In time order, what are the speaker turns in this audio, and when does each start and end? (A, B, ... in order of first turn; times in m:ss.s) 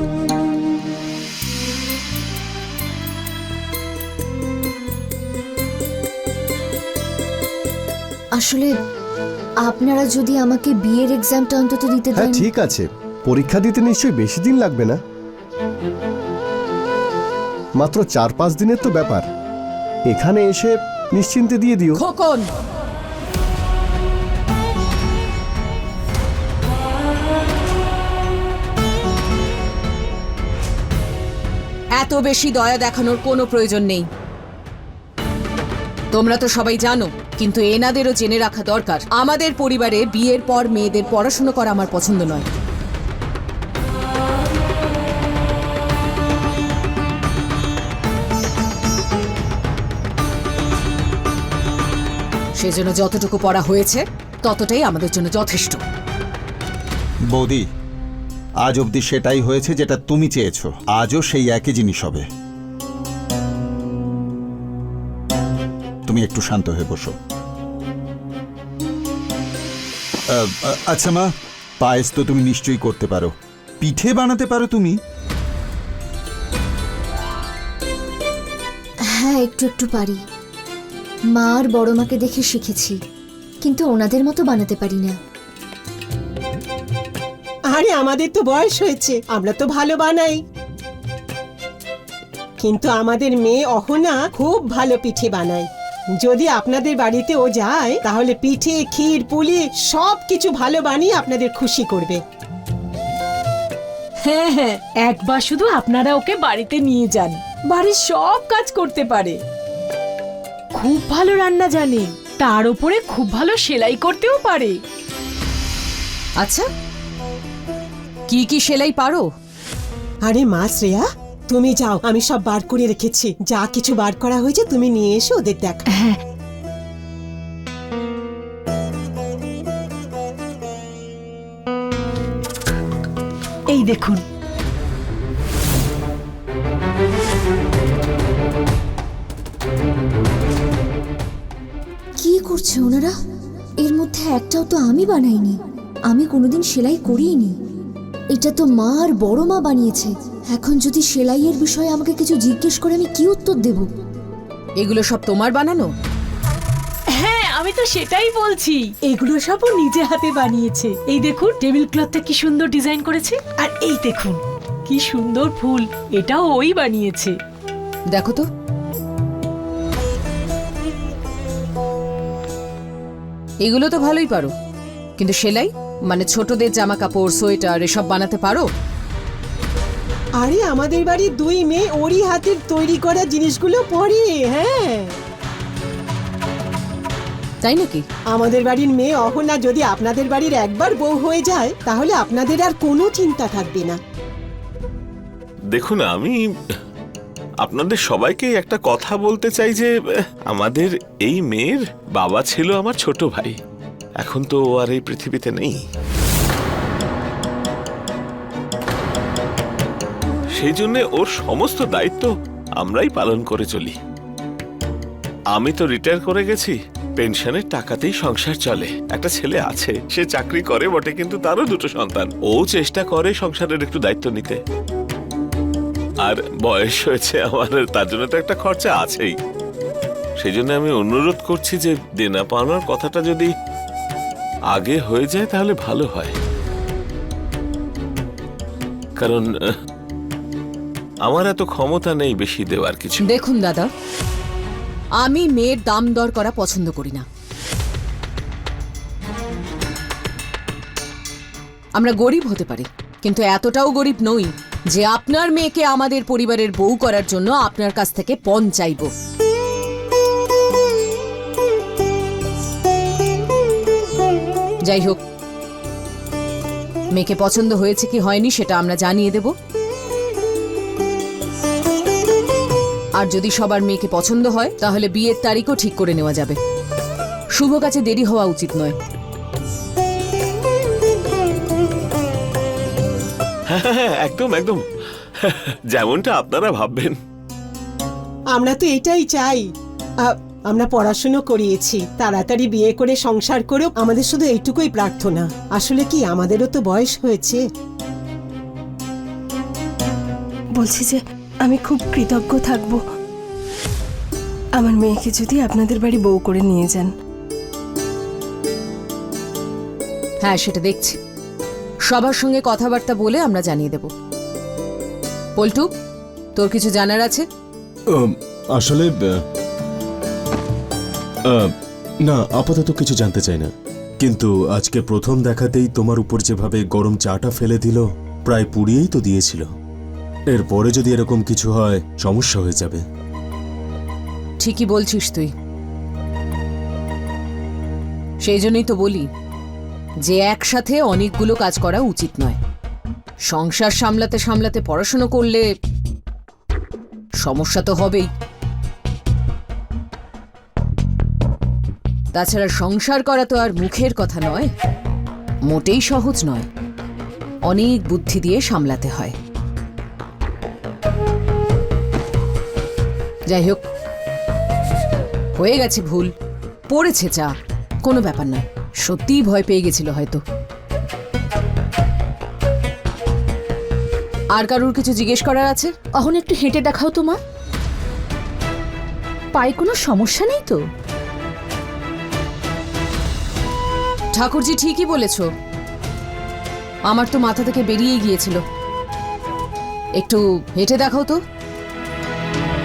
0:08.4-0:08.7 A
0:09.6-0:12.5 A
0:12.2-0:15.0 B
0:17.8-0:19.2 B
0:20.1-0:22.0 B
0:22.0-0:22.5 C
0:32.0-0:34.1 C
0:36.1-0:42.5 C
0:52.6-0:55.8 C
0:57.3-0:57.7 D
0:58.6-1:02.2 D
1:06.1-1:07.2 D
1:10.3-1:15.0 D
1:19.1-1:20.2 A
1:21.3-1:23.0 A
1:23.6-1:25.2 A
1:27.7-1:30.4 E
1:32.6-1:35.7 E
1:36.2-1:42.2 E
1:44.2-1:49.4 F
1:50.8-1:54.8 F
1:56.4-1:56.7 C
1:58.3-1:59.3 C
2:00.3-2:05.8 E
2:05.9-2:06.2 F
2:13.7-2:14.2 F
2:22.2-2:23.2 A
2:23.8-2:27.6 A
2:28.3-2:33.9 A
2:34.8-2:35.9 C
2:37.2-2:47.3 F
2:48.1-2:48.4 C
2:53.6-2:54.5 C
2:55.2-2:58.7 C
3:00.4-3:05.1 E
3:07.6-3:08.0 C
3:08.3-3:14.0 E
3:15.7-3:16.4 G
3:17.6-3:19.9 G
3:20.5-3:23.6 G
3:24.2-3:25.8 G
3:30.6-3:34.0 G
3:35.5-3:44.6 G
3:46.2-3:49.4 G
3:50.4-3:53.5 G
3:54.7-3:56.3 G
3:59.2-3:59.5 G
4:01.2-4:03.3 G
4:03.3-4:03.9 C
4:05.2-4:07.2 C
4:12.0-4:19.1 C
4:24.8-4:25.2 C
4:27.1-4:29.5 C
4:33.2-4:36.6 C
4:37.6-4:39.0 C
4:43.7-4:44.8 G
4:45.4-4:47.2 G
4:48.5-4:49.7 E
4:50.2-4:57.6 E
5:00.8-5:03.0 H
5:04.8-5:07.1 H
5:10.4-5:11.2 C
5:12.1-5:14.1 C
5:15.6-5:15.9 C
5:16.6-5:17.5 C
5:18.1-5:19.3 I
5:22.2-5:23.7 I
5:24.2-5:29.7 I
5:30.5-5:33.0 I
5:34.6-5:35.5 C
5:38.4-5:39.3 C
5:40.2-5:42.6 C
5:43.5-5:45.6 C
5:47.4-5:48.3 C
5:52.3-5:54.7 C
5:55.7-5:56.7 C
5:57.7-5:59.3 C
6:03.5-6:03.8 C
6:05.6-6:06.3 C
6:06.9-6:07.5 C
6:08.0-6:10.4 C
6:14.5-6:15.9 C
6:16.2-6:17.4 J
6:19.6-6:20.8 J
6:24.4-6:25.5 C
6:27.1-6:28.6 C
6:30.2-6:31.4 C